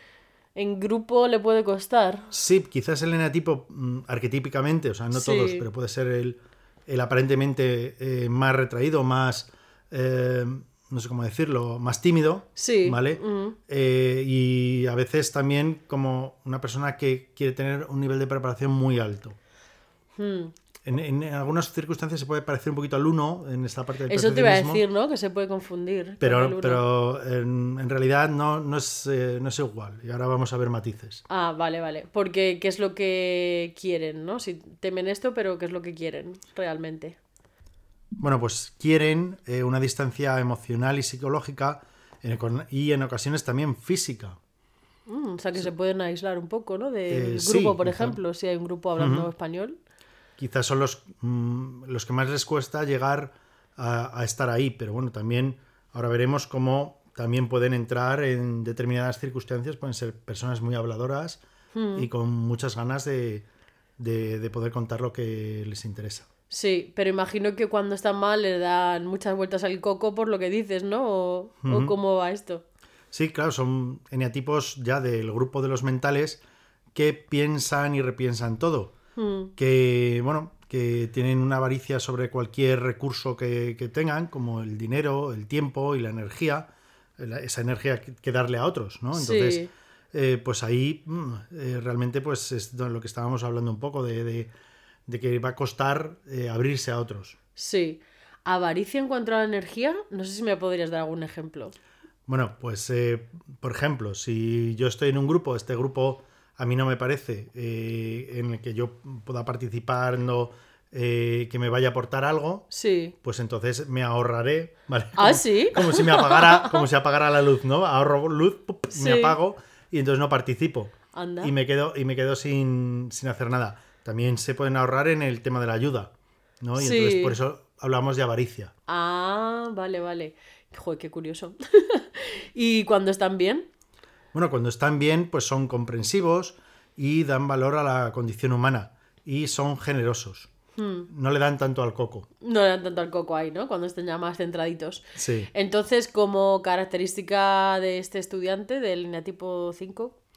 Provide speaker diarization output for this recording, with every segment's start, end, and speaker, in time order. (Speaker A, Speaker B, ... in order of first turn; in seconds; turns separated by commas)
Speaker A: 0.6-2.3, Speaker B: 2.3-19.4, Speaker A: 5.1-5.7, Speaker A: 12.6-13.6, Speaker A: 20.2-20.5, Speaker B: 20.8-24.8, Speaker A: 24.1-26.8, Speaker B: 26.2-31.2, Speaker A: 31.3-37.2, Speaker B: 38.2-44.4, Speaker A: 45.1-49.8, Speaker B: 47.1-48.2, Speaker B: 49.0-49.3, Speaker B: 50.4-61.4, Speaker A: 61.7-62.1, Speaker B: 62.0-63.5, Speaker B: 64.0-66.3, Speaker A: 66.5-72.6, Speaker B: 71.7-71.9, Speaker B: 73.1-76.4, Speaker B: 76.9-79.0, Speaker A: 79.2-79.5, Speaker B: 79.6-86.7, Speaker B: 87.2-94.5, Speaker A: 89.1-89.7, Speaker B: 95.1-97.4, Speaker A: 97.6-101.7, Speaker B: 102.3-112.7, Speaker A: 112.7-113.2, Speaker B: 113.2-128.7, Speaker A: 115.2-116.8, Speaker A: 118.9-119.4, Speaker A: 121.1-121.5, Speaker A: 126.8-127.4, Speaker A: 128.9-133.7, Speaker B: 134.3-140.5, Speaker A: 140.8-141.1, Speaker B: 141.1-142.3, Speaker A: 142.4-145.0, Speaker B: 145.2-145.5, Speaker A: 145.5-150.2